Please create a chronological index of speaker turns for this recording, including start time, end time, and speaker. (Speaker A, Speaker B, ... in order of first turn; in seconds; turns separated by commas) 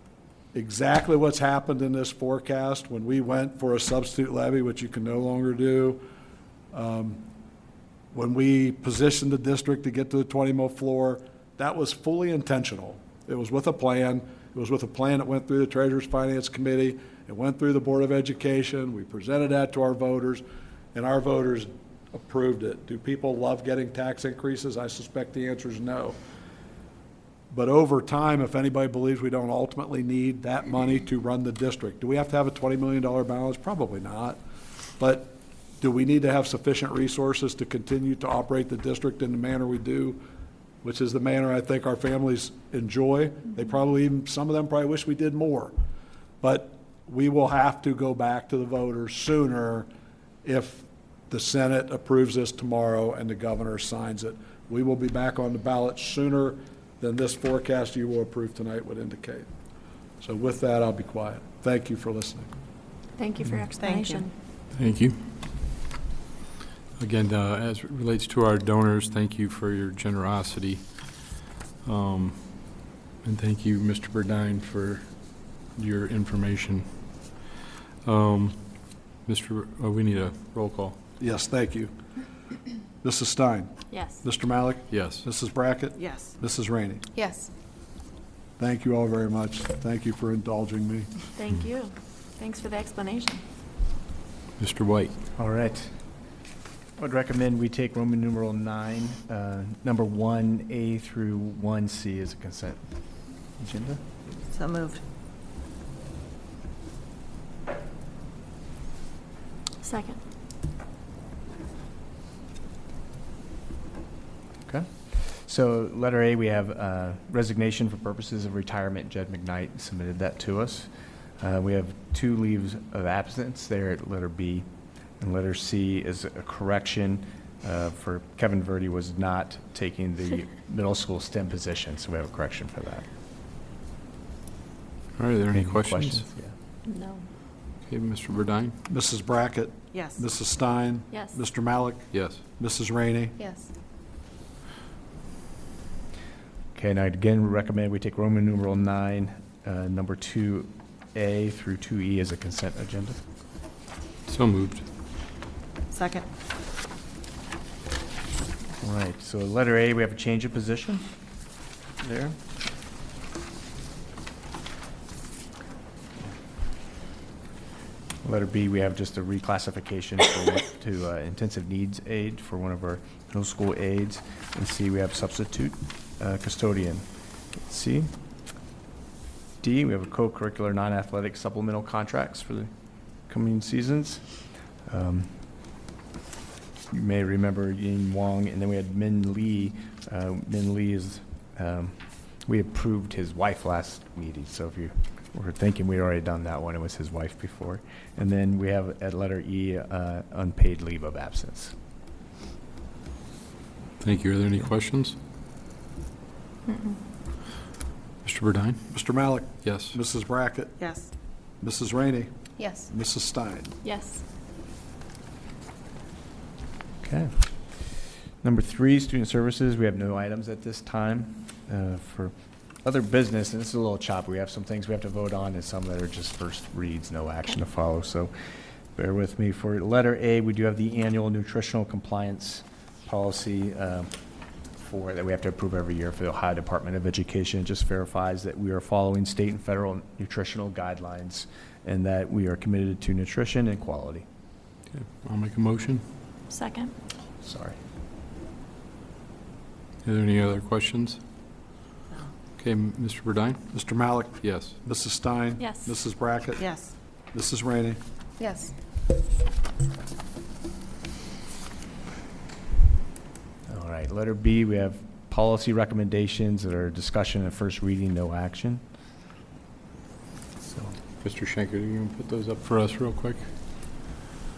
Speaker A: 0.5-6.0, Speaker A: 6.7-7.2, Speaker A: 8.1-20.4, Speaker A: 20.9-26.2, Speaker A: 27.5-34.4, Speaker A: 35.0-40.2, Speaker A: 40.8-45.7, Speaker A: 46.4-49.9, Speaker A: 50.4-59.5, Speaker A: 60.2-62.5, Speaker B: 63.2-64.3, Speaker C: 63.7-64.3, Speaker D: 64.7-65.2, Speaker D: 67.0-70.9, Speaker D: 71.8-72.7, Speaker D: 73.2-76.9, Speaker D: 78.0-78.7, Speaker D: 79.2-81.0, Speaker A: 81.2-81.9, Speaker A: 83.0-87.0, Speaker B: 83.9-84.2, Speaker D: 84.9-85.2, Speaker C: 86.0-86.4, Speaker C: 87.1-87.5, Speaker A: 88.6-91.1, Speaker B: 91.3-93.4, Speaker D: 94.6-95.1, Speaker E: 95.4-95.9, Speaker E: 97.0-102.8, Speaker E: 103.6-104.0, Speaker C: 104.5-105.0, Speaker B: 109.8-110.2, Speaker E: 114.7-124.7, Speaker E: 125.2-133.1, Speaker D: 135.2-136.2, Speaker E: 135.5-136.5, Speaker B: 136.8-137.2, Speaker D: 137.8-138.7, Speaker A: 138.9-143.3, Speaker C: 139.9-140.2, Speaker B: 141.1-141.4, Speaker D: 142.1-142.4, Speaker C: 143.4-143.7, Speaker E: 146.8-153.2, Speaker D: 154.3-154.8, Speaker C: 155.9-156.2, Speaker E: 158.8-161.0, Speaker E: 162.0-162.3, Speaker E: 168.2-177.1, Speaker E: 177.6-178.1, Speaker E: 179.6-182.7, Speaker E: 183.3-184.2, Speaker E: 184.9-185.3, Speaker E: 186.9-201.7, Speaker D: 204.0-205.2, Speaker B: 206.7-207.0, Speaker D: 208.2-208.8, Speaker A: 208.9-210.8, Speaker D: 209.6-210.0, Speaker C: 210.8-211.1, Speaker A: 211.6-213.7, Speaker C: 212.6-212.9, Speaker B: 213.8-214.2, Speaker E: 217.0-217.5, Speaker E: 218.4-222.3, Speaker E: 222.8-228.3, Speaker E: 228.9-234.1, Speaker E: 234.8-244.2, Speaker D: 244.9-246.0, Speaker B: 246.5-246.9, Speaker E: 247.4-247.8, Speaker D: 250.0-251.2, Speaker D: 252.6-253.6, Speaker A: 253.7-256.8, Speaker D: 254.4-254.8, Speaker B: 255.6-255.9, Speaker C: 256.6-256.9, Speaker A: 257.3-258.0, Speaker C: 258.4-258.7, Speaker E: 263.7-268.8, Speaker E: 270.6-270.9, Speaker D: 271.2-273.4